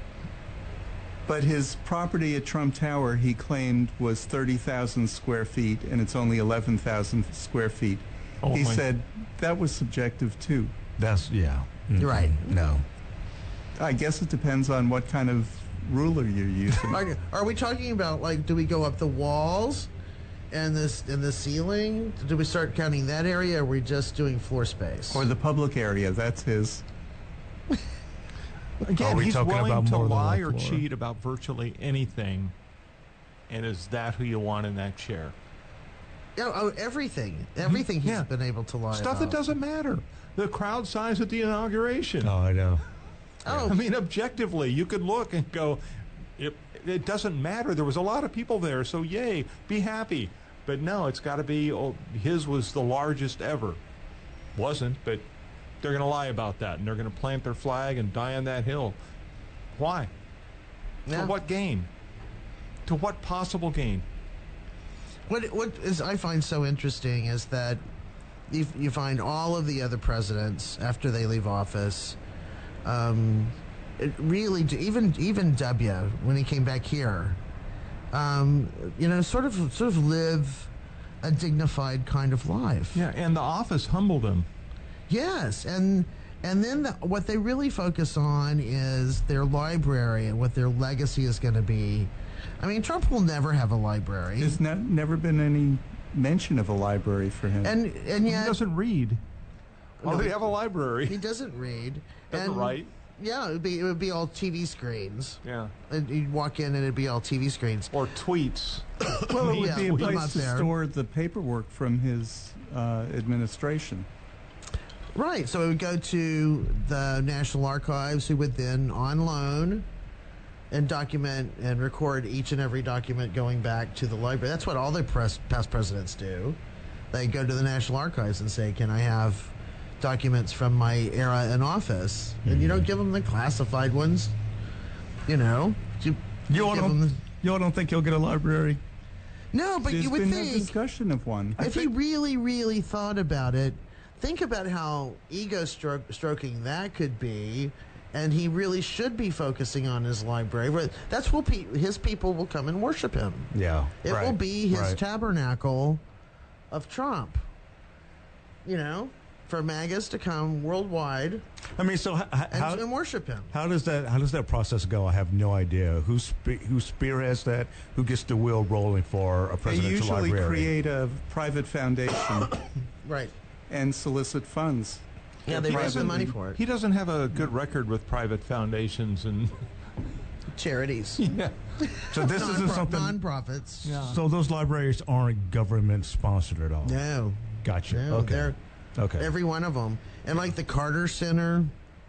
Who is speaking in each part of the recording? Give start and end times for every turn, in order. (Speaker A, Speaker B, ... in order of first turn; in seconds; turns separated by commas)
Speaker A: 1.3-10.7, Speaker B: 8.4-8.8, Speaker C: 11.0-12.8, Speaker D: 12.0-12.5, Speaker A: 13.8-17.0, Speaker D: 16.9-19.9, Speaker D: 20.5-25.2, Speaker A: 25.1-26.8, Speaker B: 28.8-32.5, Speaker C: 28.9-30.9, Speaker B: 33.5-35.4, Speaker D: 36.4-39.4, Speaker B: 37.7-38.3, Speaker B: 38.9-42.3, Speaker C: 42.2-42.8, Speaker D: 43.5-43.8, Speaker C: 43.5-43.7, Speaker B: 43.7-45.8, Speaker B: 46.4-53.8, Speaker B: 54.5-55.3, Speaker B: 55.8-59.0, Speaker B: 59.8-60.1, Speaker D: 61.1-61.3, Speaker B: 61.1-61.9, Speaker B: 62.9-64.1, Speaker D: 65.3-67.8, Speaker D: 68.5-72.2, Speaker D: 72.8-77.4, Speaker D: 78.1-80.7, Speaker D: 81.2-83.0, Speaker B: 82.9-84.5, Speaker D: 85.1-94.6, Speaker A: 94.4-97.8, Speaker D: 97.6-98.6, Speaker B: 98.3-99.2, Speaker D: 100.0-100.4, Speaker B: 100.0-101.2, Speaker D: 101.1-107.9, Speaker B: 102.3-102.9, Speaker B: 105.4-105.7, Speaker B: 107.9-110.4, Speaker A: 109.3-114.1, Speaker D: 109.3-110.7, Speaker D: 115.1-119.9, Speaker D: 120.7-126.6, Speaker D: 127.1-134.3, Speaker C: 132.5-132.9, Speaker D: 135.3-137.2, Speaker C: 136.5-138.8, Speaker D: 139.5-140.7, Speaker A: 139.8-141.8, Speaker D: 141.6-153.5, Speaker C: 153.5-155.0, Speaker D: 154.0-156.0, Speaker D: 156.7-157.4, Speaker D: 158.7-161.5, Speaker C: 161.7-162.9, Speaker D: 162.5-163.5, Speaker C: 163.5-170.7, Speaker A: 169.7-172.7, Speaker D: 173.0-173.3, Speaker A: 173.7-176.3, Speaker D: 175.5-176.6, Speaker B: 175.5-179.7, Speaker D: 180.5-181.2, Speaker B: 181.2-181.6, Speaker D: 181.8-184.1, Speaker C: 182.1-183.2, Speaker B: 183.8-184.2, Speaker C: 184.0-187.0, Speaker D: 186.8-188.6, Speaker C: 187.6-189.3, Speaker D: 189.2-191.7